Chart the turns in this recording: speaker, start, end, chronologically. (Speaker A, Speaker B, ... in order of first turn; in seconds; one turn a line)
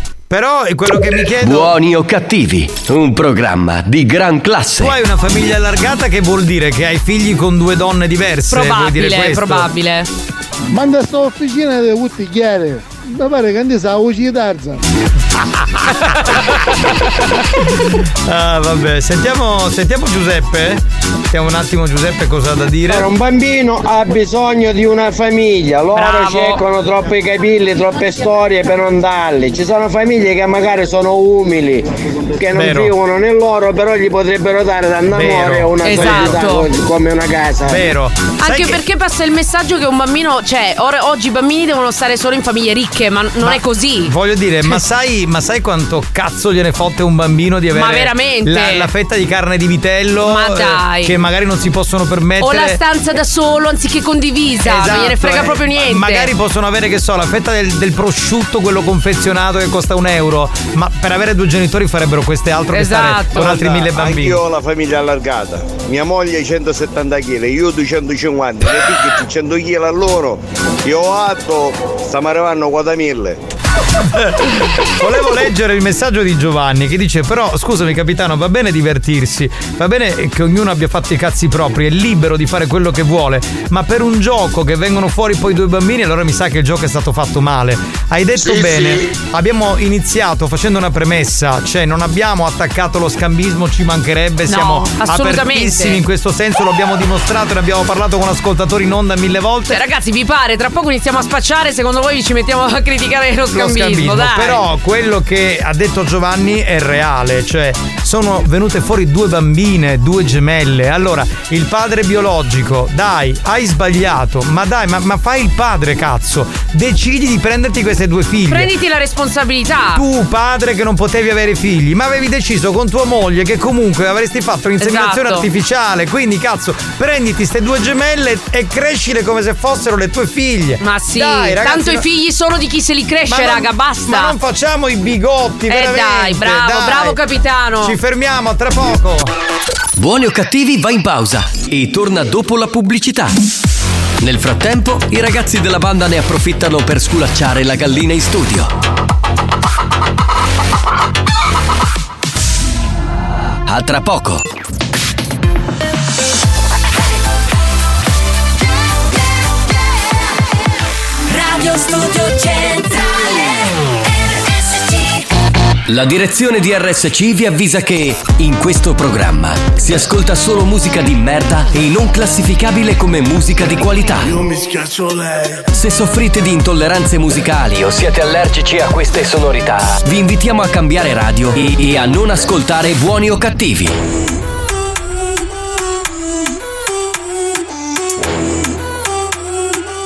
Speaker A: 0.3-1.7
Speaker B: 1.4-4.9
Speaker A: 4.8-9.7
Speaker C: 8.5-10.1
Speaker D: 10.7-14.8
Speaker A: 15.8-16.8
Speaker A: 17.6-23.1
Speaker E: 22.9-31.9
Speaker C: 25.9-26.6
Speaker E: 32.4-37.8
Speaker A: 32.5-32.9
Speaker A: 35.1-36.4
Speaker C: 35.8-36.7
Speaker A: 37.7-38.8
Speaker C: 38.4-44.1
Speaker A: 43.4-52.8
Speaker C: 47.7-48.9
Speaker C: 50.2-51.1
Speaker C: 52.4-56.3
Speaker A: 54.6-64.4
Speaker C: 62.7-63.5
Speaker F: 63.4-73.4
Speaker A: 74.2-99.8
Speaker C: 94.5-96.0
Speaker C: 99.7-104.6
Speaker A: 103.5-118.7
Speaker C: 118.5-120.0
Speaker A: 119.9-132.1
Speaker C: 124.8-125.5
Speaker C: 130.8-134.3
Speaker A: 133.3-137.2
Speaker C: 135.7-137.9
Speaker A: 137.8-139.3
Speaker B: 140.0-143.3
Speaker B: 144.2-148.7
Speaker B: 153.7-154.4
Speaker G: 161.3-163.6
Speaker G: 164.2-165.3
Speaker B: 165.9-174.4
Speaker B: 175.7-184.0